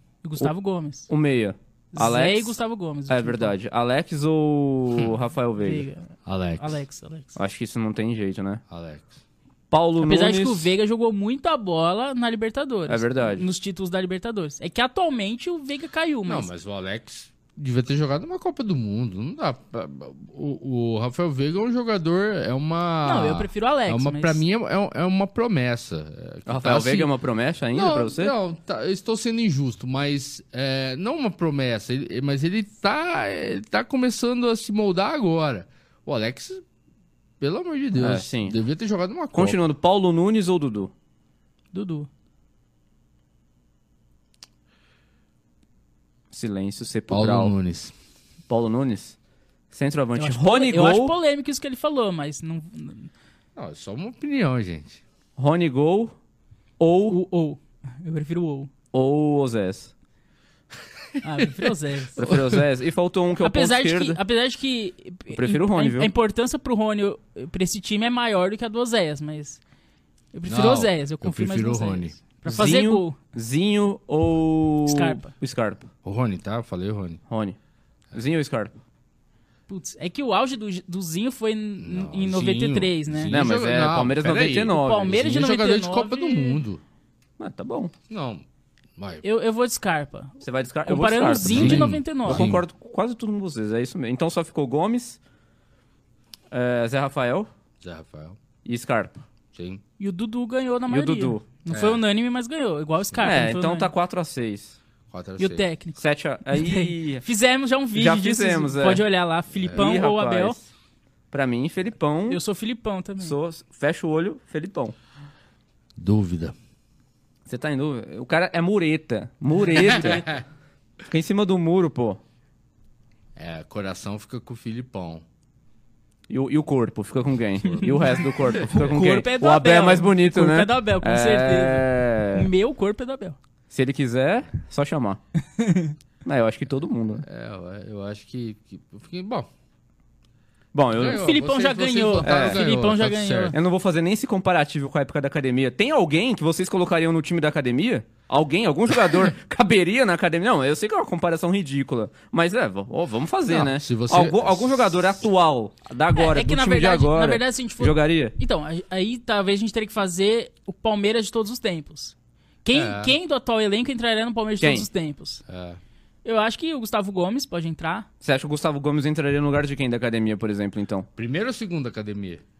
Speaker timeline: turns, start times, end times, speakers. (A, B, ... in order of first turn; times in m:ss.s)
0:00.2-0:01.1 A
0:01.1-0:02.6 B
0:01.9-0:03.5 A
0:03.1-0:05.8 B
0:05.6-0:07.4 A
0:06.2-0:06.8 C
0:07.4-0:08.6 B
0:08.7-0:09.1 C
0:09.7-0:10.7 B
0:10.0-0:16.5 A
0:12.9-0:13.4 B
0:16.2-0:27.1 C
0:23.0-0:24.4 A
0:26.5-0:28.3 B
0:27.7-0:36.6 C
0:37.4-0:39.6 C
0:38.0-0:38.6 B
0:39.3-0:40.9 B
0:41.7-0:42.1 A
0:46.3-0:47.5 B
0:47.1-0:47.9 C
0:48.5-0:49.2 B
0:49.7-0:51.1 B
0:50.2-0:53.1 A
0:53.6-0:55.0 C
0:55.4-0:56.1 B
0:56.8-0:57.2 B
0:57.1-0:58.7 A
0:58.9-0:59.9 B
1:01.2-1:02.3 A
1:01.4-1:02.6 C
1:02.2-1:04.2 B
1:03.4-1:09.6 A
1:05.3-1:06.1 B
1:10.3-1:13.2 A
1:10.5-1:12.2 C
1:12.4-1:15.9 B
1:14.8-1:15.3 A
1:16.0-1:17.2 C
1:17.3-1:17.6 B
1:18.1-1:18.7 B
1:19.7-1:23.4 A
1:21.8-1:26.8 C
1:23.3-1:25.1 B
1:24.7-1:26.6 A
1:27.4-1:27.9 B
1:28.1-1:28.4 C
1:29.0-1:29.2 C
1:29.2-1:32.5 A
1:30.4-1:35.2 B
1:31.4-1:32.6 C
1:36.5-1:37.5 B
1:37.8-1:38.4 C
1:38.6-1:39.2 B
1:39.5-1:39.8 C
1:40.0-1:43.9 A
1:40.9-1:41.4 B
1:41.7-1:42.0 C
1:43.2-1:44.8 B
1:45.1-1:45.7 C
1:45.4-1:50.6 A
1:46.0-1:47.2 B
1:47.9-1:49.0 B
1:49.6-1:49.9 C
1:49.7-1:50.6 B
1:51.3-1:52.4 B
1:52.3-1:53.3 A
1:53.2-1:54.9 B
1:56.0-1:56.5 C
1:57.5-2:00.3 B
1:59.8-2:00.4 C
1:59.8-2:00.2 A
2:01.1-2:02.2 B
2:03.4-2:05.2 C
2:06.3-2:12.5 B
2:07.8-2:13.4 A
2:13.7-2:15.2 B
2:15.6-2:15.9 A
2:16.2-2:17.2 B
2:17.2-2:19.5 C
2:20.7-2:21.2 B
2:20.9-2:23.6 C
2:21.1-2:23.5 A
2:22.2-2:22.6 B
2:23.5-2:38.3 B
2:33.5-2:35.1 C
2:36.1-2:45.4 A
2:42.7-2:43.1 C
2:44.6-2:44.9 B
2:45.5-2:45.8 C
2:46.2-2:48.1 A
2:48.2-2:51.1 B
2:51.2-2:52.4 C